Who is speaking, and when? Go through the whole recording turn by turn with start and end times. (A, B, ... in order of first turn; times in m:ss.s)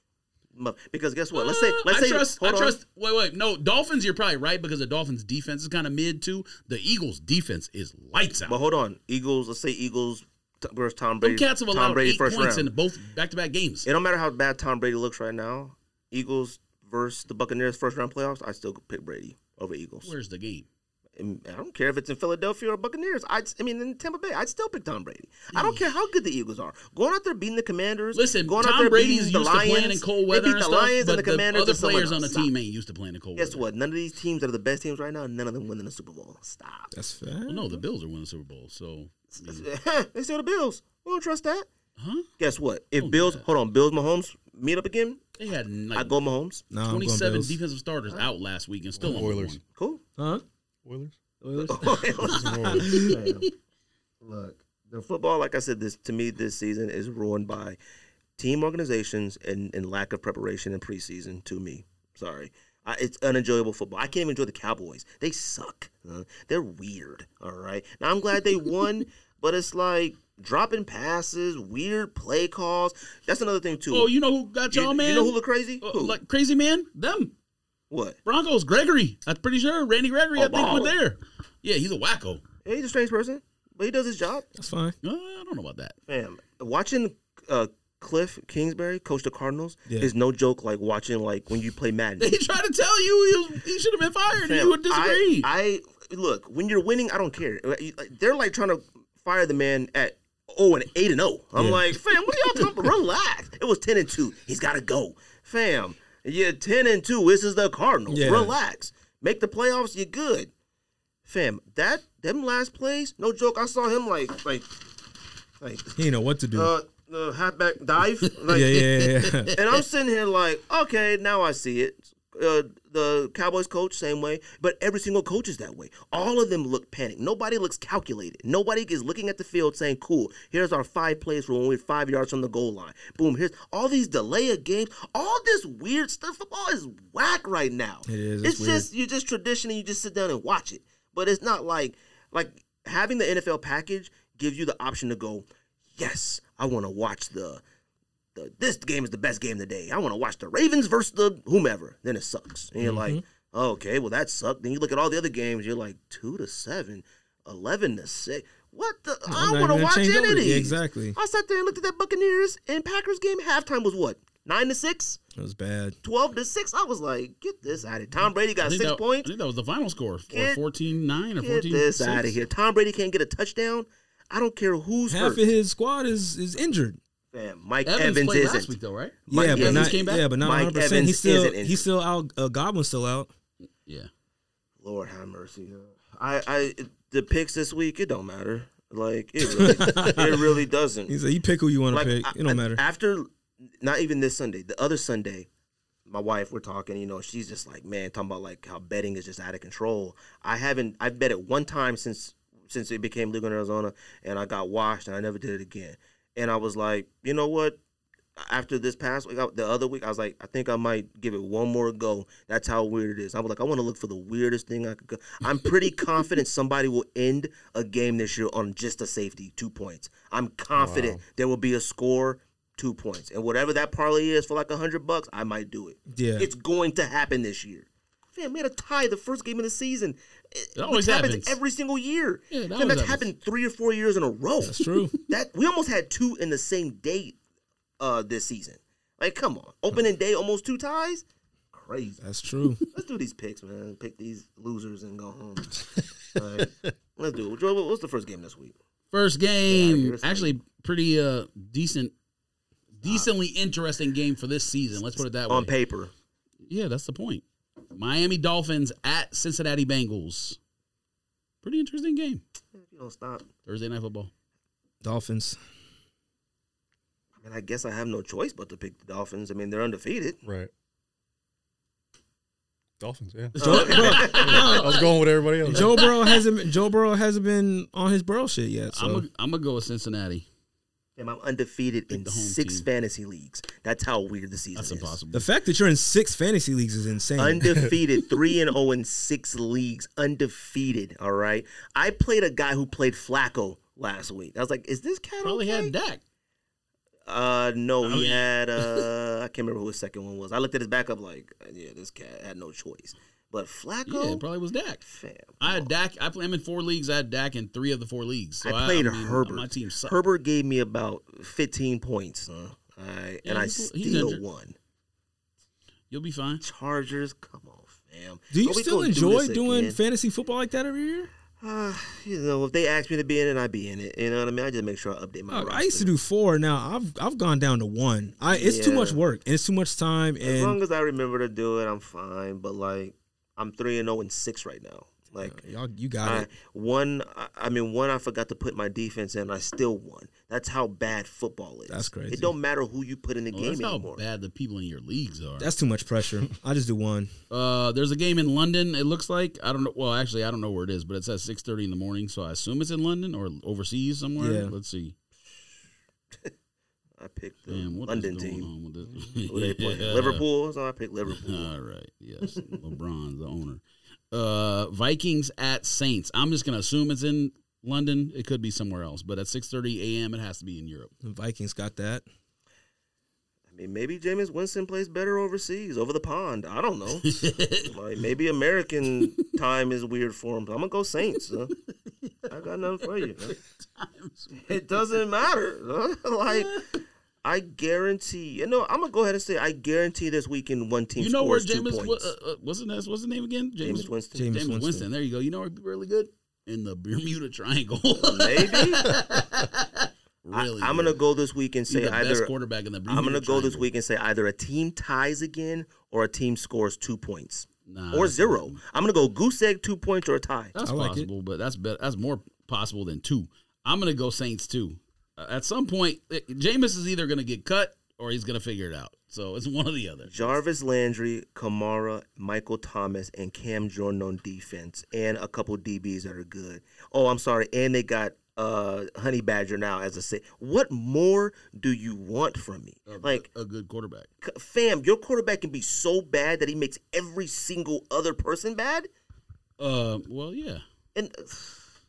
0:00.5-0:02.8 A
0:01.3-0:08.6 B
0:08.4-0:12.7 A
0:11.2-0:13.9 B
0:13.8-0:20.1 A
0:20.0-0:20.7 B
0:21.2-0:32.5 A
0:25.5-0:25.9 B
0:28.1-0:33.6 B
0:33.4-0:36.9 A
0:36.9-0:37.8 C
0:37.5-0:39.6 B
0:39.3-0:41.7 A
0:42.0-0:42.3 B
0:42.4-0:45.2 A
0:42.9-0:43.4 B
0:45.4-0:46.2 B
0:45.9-0:46.6 A
0:46.7-0:47.5 C
0:46.8-0:49.6 B
0:49.0-0:49.6 D
0:49.8-0:50.0 A
0:50.2-0:50.4 C
0:50.8-0:51.1 D
0:51.4-0:53.0 C
0:51.6-0:53.5 A
0:52.2-0:53.1 D
0:52.2-0:53.5 B
0:54.2-0:57.8 A
0:58.4-1:14.1 A
1:13.9-1:17.3 B
1:14.7-1:16.2 A
1:17.9-1:18.2 A
1:18.2-1:22.4 B
1:20.4-1:20.9 A
1:22.6-1:24.5 A
1:24.5-1:24.9 C
1:25.0-1:26.0 B
1:26.1-1:32.3 A
1:32.2-1:35.5 B
1:34.4-1:50.5 A
1:41.6-1:41.8 C
1:48.1-1:48.5 C
1:51.2-1:54.7 A
1:55.6-1:56.0 A
1:56.0-1:56.7 C
1:56.5-1:58.9 A
1:58.5-1:59.5 C
1:58.8-1:59.5 B
1:59.5-2:27.6 A
2:18.0-2:18.9 C
2:28.3-2:45.2 A
2:32.8-2:33.2 C
2:39.3-2:41.2 C
2:45.4-2:46.0 C
2:46.0-2:49.3 A
2:48.6-2:52.3 B
2:50.3-2:50.6 A
2:51.4-2:55.5 A
2:55.1-2:57.0 C
2:57.3-2:58.7 A
2:57.8-3:00.2 B
2:59.3-3:01.8 A
2:59.3-3:03.3 C
3:04.8-3:11.1 A
3:09.6-3:10.5 C
3:11.1-3:12.8 C
3:11.9-3:13.3 A
3:13.8-3:15.5 A
3:16.1-3:27.8 A
3:28.4-3:57.4 A
3:40.8-3:41.2 D
3:46.1-3:46.5 C
3:50.8-3:51.6 B
3:52.5-3:53.3 B
3:54.6-3:55.1 C
3:58.0-4:02.2 A
4:02.2-4:02.8 C
4:02.9-4:08.7 A
4:09.1-4:12.1 B
4:09.7-4:10.6 A
4:13.0-4:15.7 B
4:13.0-4:13.3 A
4:15.1-4:16.1 A
4:16.7-4:20.6 B
4:21.6-4:22.4 B
4:22.7-4:23.5 A
4:23.6-4:24.3 B
4:25.0-4:25.6 C
4:27.4-4:30.4 A
4:30.4-4:30.7 D
4:33.0-4:36.1 D
4:33.5-4:36.4 B
4:33.6-4:34.7 A
4:33.6-4:35.0 C
4:35.6-4:39.2 C
4:38.9-4:40.4 B
4:41.2-4:45.2 A
4:42.1-4:42.8 B
4:44.8-4:45.4 B
4:45.3-4:47.9 C
4:47.4-4:55.9 A
4:55.4-4:56.2 B
4:57.2-5:04.4 A
4:58.0-4:59.0 B
5:04.0-5:05.0 B
5:05.0-5:05.9 A
5:05.6-5:10.1 B
5:08.6-5:14.7 A
5:13.4-5:14.4 B
5:16.1-5:16.6 B
5:16.6-5:20.0 A
5:18.5-5:21.3 C
5:21.6-5:26.1 A
5:25.5-5:30.8 C
5:28.5-5:29.2 A
5:30.4-5:35.6 A
5:35.4-5:36.5 C
5:36.2-5:44.2 A
5:41.9-5:42.5 C
5:43.5-5:45.7 B
5:45.6-5:47.3 C
5:47.5-5:55.1 B
5:54.4-5:54.7 C
5:57.2-5:58.7 A
5:57.7-6:00.4 B
5:59.4-6:01.7 A
6:01.3-6:11.1 B
6:02.5-6:02.8 A
6:11.2-6:12.2 C
6:13.7-6:21.7 A
6:17.2-6:17.9 B
6:22.2-6:22.5 B
6:22.5-6:23.6 A
6:23.2-6:24.6 B
6:24.5-6:26.9 A
6:26.5-6:26.9 B
6:27.4-6:32.3 A
6:31.2-6:41.2 B
6:33.8-6:34.5 A
6:34.3-6:35.1 C
6:38.2-6:39.2 A
6:40.5-6:42.5 A
6:41.9-6:43.9 B
6:43.1-6:50.7 A
6:47.9-6:48.8 B
6:50.7-6:51.3 C
6:50.8-7:00.5 B
7:00.3-7:13.5 A
7:13.0-7:14.3 B
7:14.4-7:19.1 A
7:19.8-7:20.8 B
7:21.1-7:21.8 A